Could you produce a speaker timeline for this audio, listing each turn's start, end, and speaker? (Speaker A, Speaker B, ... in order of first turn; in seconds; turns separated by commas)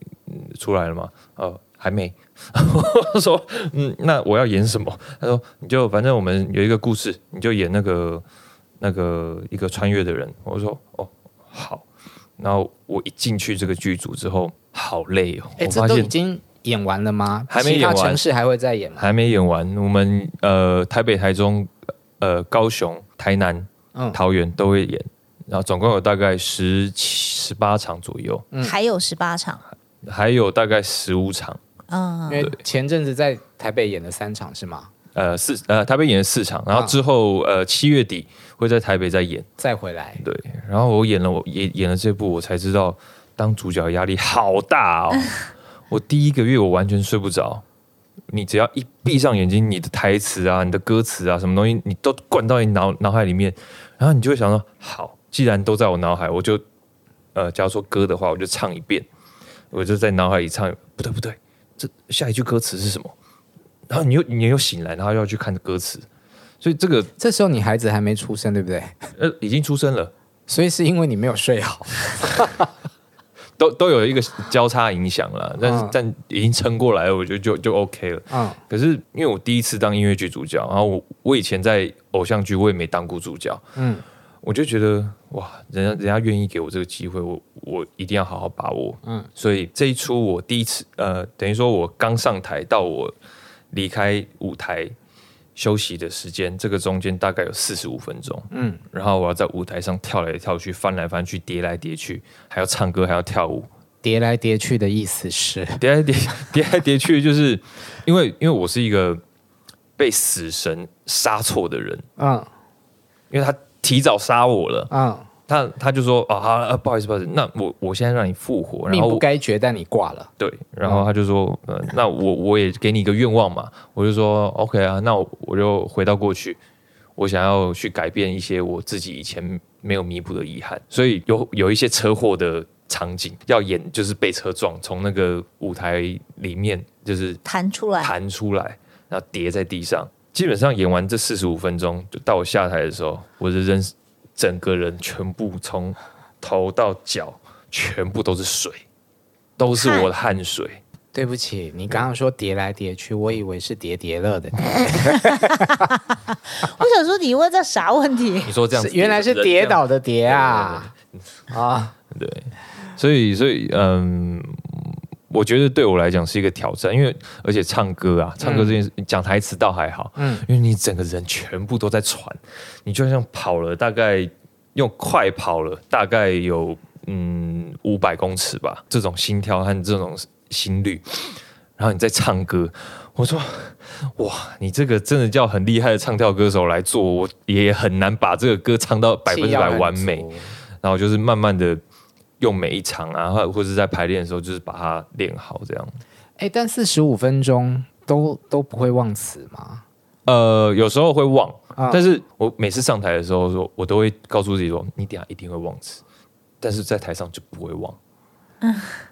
Speaker A: 0.2-8.2, Speaker A: 8.8-11.8, Speaker A: 12.4-16.1, Speaker B: 15.6-19.1, Speaker A: 17.5-18.2, Speaker A: 19.0-28.4, Speaker B: 23.9-24.2, Speaker C: 28.6-29.6, Speaker A: 30.0-31.6, Speaker C: 31.9-32.5, Speaker B: 32.3-34.9, Speaker A: 35.1-39.5, Speaker B: 39.6-40.2, Speaker A: 40.2-45.4, Speaker A: 45.9-47.6, Speaker A: 48.3-56.6, Speaker A: 57.3-59.1, Speaker A: 59.7-63.1, Speaker A: 63.9-66.0, Speaker A: 66.6-67.1, Speaker B: 67.2-69.1, Speaker A: 69.2-70.1, Speaker B: 70.5-72.7, Speaker A: 73.6-83.6, Speaker B: 75.6-76.0, Speaker B: 78.3-78.6, Speaker B: 83.8-84.0, Speaker A: 84.4-93.1, Speaker B: 89.0-89.3, Speaker A: 93.7-94.9, Speaker A: 95.5-103.7, Speaker B: 98.5-98.8, Speaker B: 104.0-105.8, Speaker A: 105.8-109.2, Speaker A: 110.0-112.0, Speaker B: 112.2-112.5, Speaker A: 113.3-114.9, Speaker B: 114.9-115.3, Speaker A: 115.5-119.2, Speaker B: 118.9-120.3, Speaker A: 120.4-126.6, Speaker A: 127.2-137.4, Speaker C: 137.4-138.1, Speaker A: 138.0-148.8, Speaker A: 149.6-150.8, Speaker C: 149.8-150.1, Speaker B: 151.1-155.9, Speaker C: 155.2-158.5, Speaker A: 158.4-161.4, Speaker B: 158.7-160.9, Speaker B: 161.5-161.9, Speaker A: 162.1-190.2, Speaker B: 168.4-168.7, Speaker B: 170.2-170.4, Speaker B: 189.3-190.5, Speaker A: 190.8-191.8, Speaker A: 192.4-196.0, Speaker B: 196.4-199.8, Speaker A: 200.2-206.0, Speaker B: 201.8-202.0, Speaker A: 206.6-208.0, Speaker C: 208.6-209.0